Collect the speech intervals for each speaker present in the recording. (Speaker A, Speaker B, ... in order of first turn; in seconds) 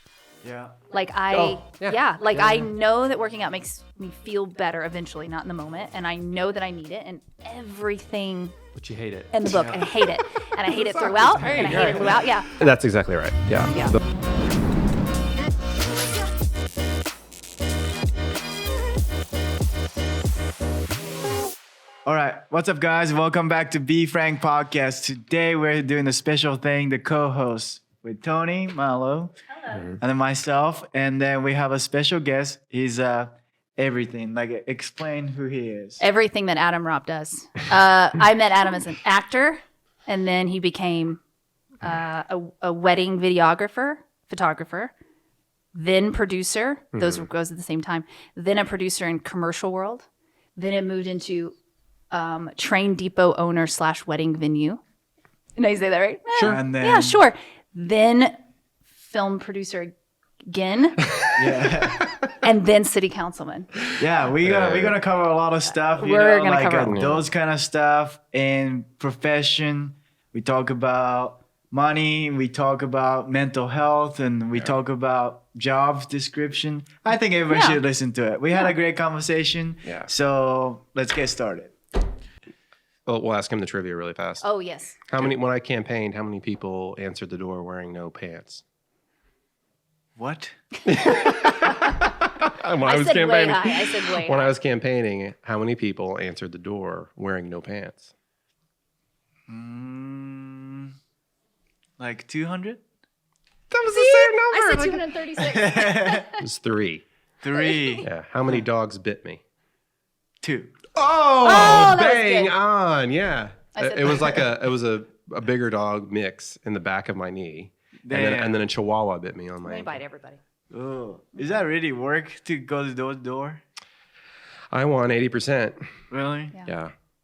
Speaker A: 0.4-0.8, 9.4-9.8, 22.1-29.4, 30.0-36.0, 56.4-57.2, 61.4-62.1, 64.0-81.8, 90.2-90.5, 99.5-100.9, 102.0-102.8, 105.4-106.2, 107.4-108.6, 110.4-110.8, 118.1-118.6, 120.7-123.6, 126.1-126.6
Speaker B: 0.9-8.6, 9.3-12.7, 13.6-14.0, 29.5-29.9, 36.0-41.2, 41.8-44.9, 45.7-51.5, 52.1-54.8, 55.6-58.4, 59.0-59.9, 60.5-61.1, 62.4-63.8, 65.9-67.0, 77.5-77.8, 84.4-85.0, 91.0-92.1, 92.8-94.5, 103.8-106.5, 107.5-108.1, 111.4-112.5, 113.8-114.5, 119.6-120.4
Speaker C: 1.3-2.7, 8.7-9.6, 10.7-14.0, 46.9-47.3, 64.4-65.0, 66.8-67.3, 79.8-80.1, 83.1-84.5, 85.1-88.6, 90.9-98.1, 103.7-105.1, 106.3-107.0, 108.0-109.4, 110.9-120.0, 124.7-125.9, 126.7-126.9